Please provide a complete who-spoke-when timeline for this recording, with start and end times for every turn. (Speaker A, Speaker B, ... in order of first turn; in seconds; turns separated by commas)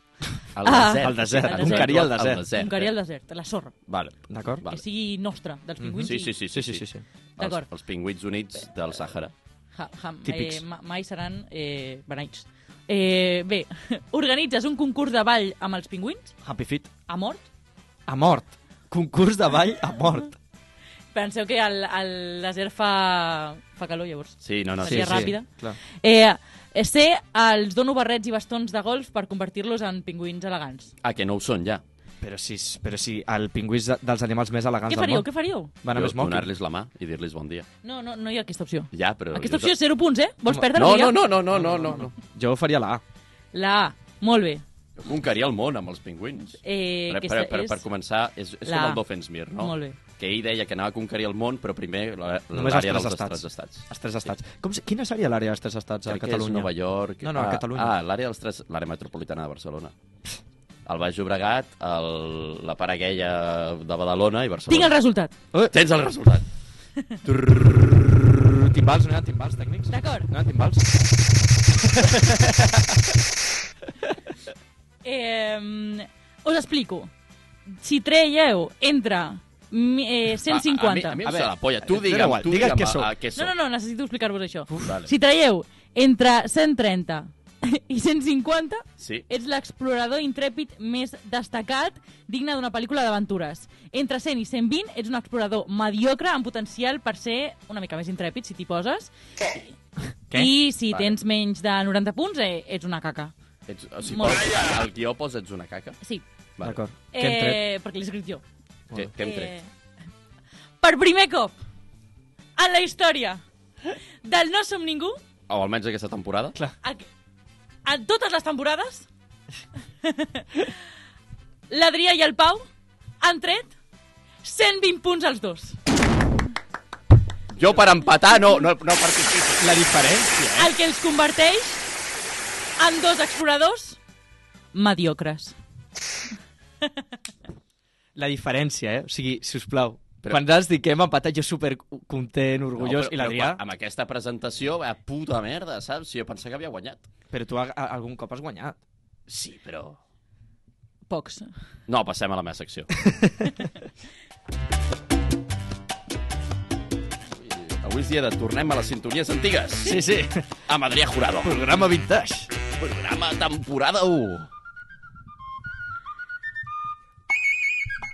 Speaker A: 0.5-2.9, Speaker B: 0.6-3.7, Speaker C: 1.0-2.4, Speaker A: 3.9-4.8, Speaker C: 4.3-4.6, Speaker B: 4.7-6.3, Speaker C: 5.8-7.0, Speaker A: 6.0-9.3, Speaker B: 7.4-7.7, Speaker B: 9.7-16.4, Speaker C: 10.2-10.6, Speaker C: 16.4-16.9, Speaker B: 17.1-17.4, Speaker C: 18.1-20.4, Speaker B: 21.1-25.5, Speaker A: 24.4-25.3, Speaker C: 24.8-25.8, Speaker B: 26.0-30.9, Speaker A: 31.0-31.8, Speaker C: 32.2-35.3, Speaker B: 34.9-35.7, Speaker C: 35.8-36.5, Speaker A: 35.9-37.7, Speaker B: 37.8-41.2, Speaker A: 38.9-39.7, Speaker A: 40.7-42.1, Speaker C: 41.5-43.0, Speaker B: 43.5-44.6, Speaker A: 45.0-53.9, Speaker B: 46.6-47.8, Speaker B: 48.6-49.0, Speaker B: 49.5-50.0, Speaker C: 52.5-57.9, Speaker A: 56.1-59.9, Speaker A: 60.9-64.9, Speaker B: 64.7-65.3, Speaker A: 65.7-66.5, Speaker A: 67.2-67.9, Speaker C: 67.8-70.9, Speaker B: 69.9-70.3, Speaker C: 71.7-73.1, Speaker B: 75.0-77.1, Speaker B: 77.7-81.2, Speaker A: 80.5-83.5, Speaker C: 81.2-83.1, Speaker B: 83.3-99.1, Speaker A: 84.8-85.1, Speaker A: 89.0-89.2, Speaker B: 100.3-103.3, Speaker A: 103.7-106.0, Speaker B: 104.1-104.4, Speaker C: 106.6-107.6, Speaker B: 107.1-108.4, Speaker A: 108.9-109.5, Speaker B: 109.2-109.7, Speaker B: 110.8-111.6, Speaker B: 112.6-113.4, Speaker B: 114.2-115.2, Speaker A: 115.5-116.6, Speaker B: 117.8-119.1, Speaker B: 120.0-120.7, Speaker B: 121.7-122.7, Speaker B: 123.2-123.7, Speaker B: 124.4-125.8, Speaker A: 127.5-129.7, Speaker C: 129.6-130.7, Speaker B: 130.6-131.8, Speaker B: 132.8-134.0, Speaker B: 134.7-135.6, Speaker C: 138.2-143.6, Speaker A: 140.2-140.5, Speaker A: 142.8-147.0, Speaker C: 147.3-148.8, Speaker A: 149.3-150.0, Speaker B: 151.1-151.5, Speaker A: 151.9-152.9, Speaker A: 157.4-160.0, Speaker C: 159.8-160.4, Speaker A: 160.7-161.6, Speaker C: 161.4-162.5, Speaker A: 162.8-164.5